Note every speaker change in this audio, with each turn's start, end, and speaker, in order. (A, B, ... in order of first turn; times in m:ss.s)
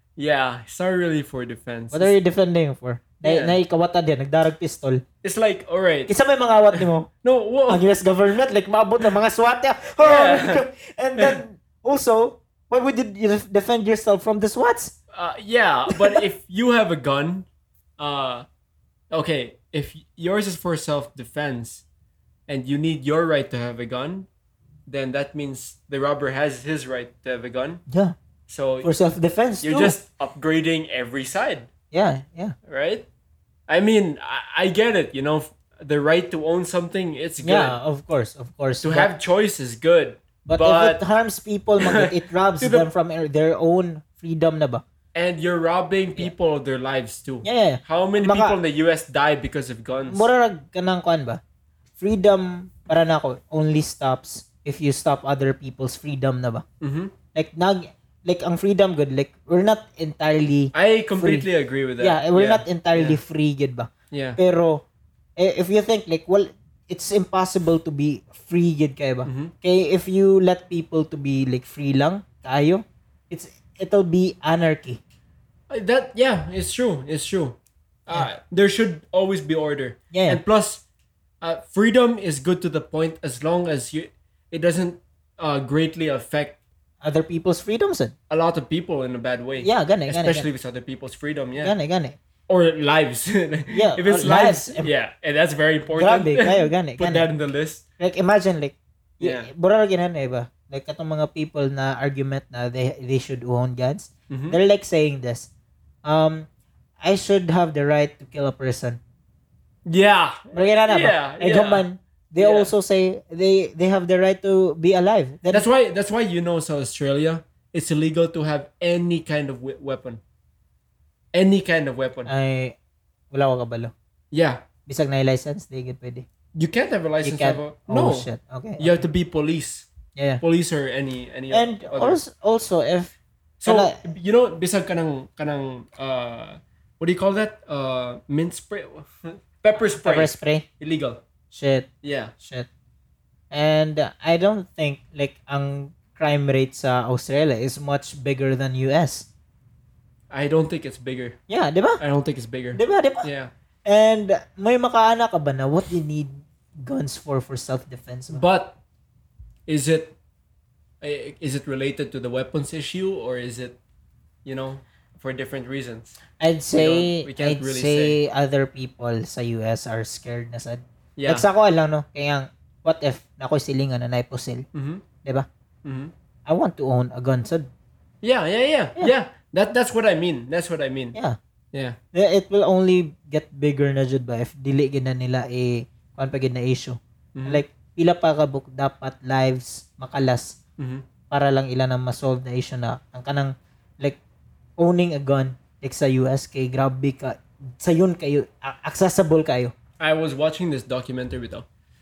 0:00.2-0:02.2 A
0:01.9-0:05.0 B
0:03.2-0:03.6 A
0:05.2-0:06.1 A
0:06.1-0:07.1 B
0:06.8-0:07.8 A
0:07.7-0:15.0 B
0:10.0-0:10.6 A
0:15.1-0:17.5 A
0:15.9-0:16.2 B
0:18.0-0:18.4 A
0:19.1-0:21.8 A
0:22.5-0:24.3 A
0:24.9-0:27.8 A
0:27.9-0:28.1 B
0:28.5-0:28.9 A
0:28.8-0:30.0 B
0:29.6-0:31.7 A
0:31.9-0:32.5 B
0:32.6-0:33.0 A
0:33.7-0:37.8 A
0:37.4-0:39.1 B
0:38.8-0:41.0 A
0:40.4-0:44.8 B
0:41.8-0:42.9 A
0:45.1-0:50.3 A
0:47.4-0:48.6 B
0:50.1-0:51.4 B
0:52.0-0:56.6 B
0:56.8-0:57.1 A
0:57.3-1:01.4 B
1:00.7-1:03.2 A
1:02.0-1:04.8 B
1:04.1-1:04.4 A
1:05.4-1:15.0 B
1:09.2-1:09.5 A
1:15.7-1:20.8 A
1:20.1-1:20.4 B
1:21.4-1:26.6 A
1:27.0-1:28.1 B
1:28.3-1:31.7 A
1:29.6-1:30.5 B
1:31.6-1:32.2 B
1:32.5-1:37.8 A
1:33.7-1:34.9 B
1:35.9-1:37.3 B
1:38.0-1:45.5 B
1:39.2-1:39.5 A
1:44.3-1:44.6 A
1:46.0-1:46.5 B
1:47.0-1:49.0 B
1:49.8-1:51.8 A
1:50.5-1:55.7 B
1:52.4-1:52.7 A
1:55.5-2:00.2 A
2:01.3-2:02.3 A
2:02.2-2:02.8 B
2:03.3-2:03.9 B
2:04.3-2:04.6 A
2:04.9-2:06.2 B
2:06.5-2:08.3 A
2:07.2-2:09.0 B
2:08.8-2:09.9 A
2:10.2-2:10.4 B
2:10.4-2:12.2 A
2:11.5-2:14.0 B
2:13.6-2:21.2 A
2:19.8-2:20.6 B
2:21.5-2:21.9 B
2:22.0-2:22.3 A
2:22.4-2:22.7 B
2:23.5-2:29.3 B
2:30.3-2:31.4 A
2:31.5-2:32.0 B
2:32.0-2:33.5 A
2:32.7-2:33.3 B
2:33.8-2:38.4 B
2:38.3-2:38.8 A
2:39.7-2:40.2 A
2:41.0-2:43.8 A
2:44.4-2:46.1 A
2:46.4-2:54.6 B
2:46.8-2:48.2 A
2:51.2-2:51.4 A
2:54.7-2:55.0 A
2:55.8-2:56.1 A
2:56.5-2:57.7 B
2:58.2-3:01.2 A
3:02.1-3:10.6 B
3:07.3-3:07.6 A
3:10.8-3:11.0 A
3:11.3-3:14.2 B
3:14.8-3:19.7 B
3:20.0-3:21.6 A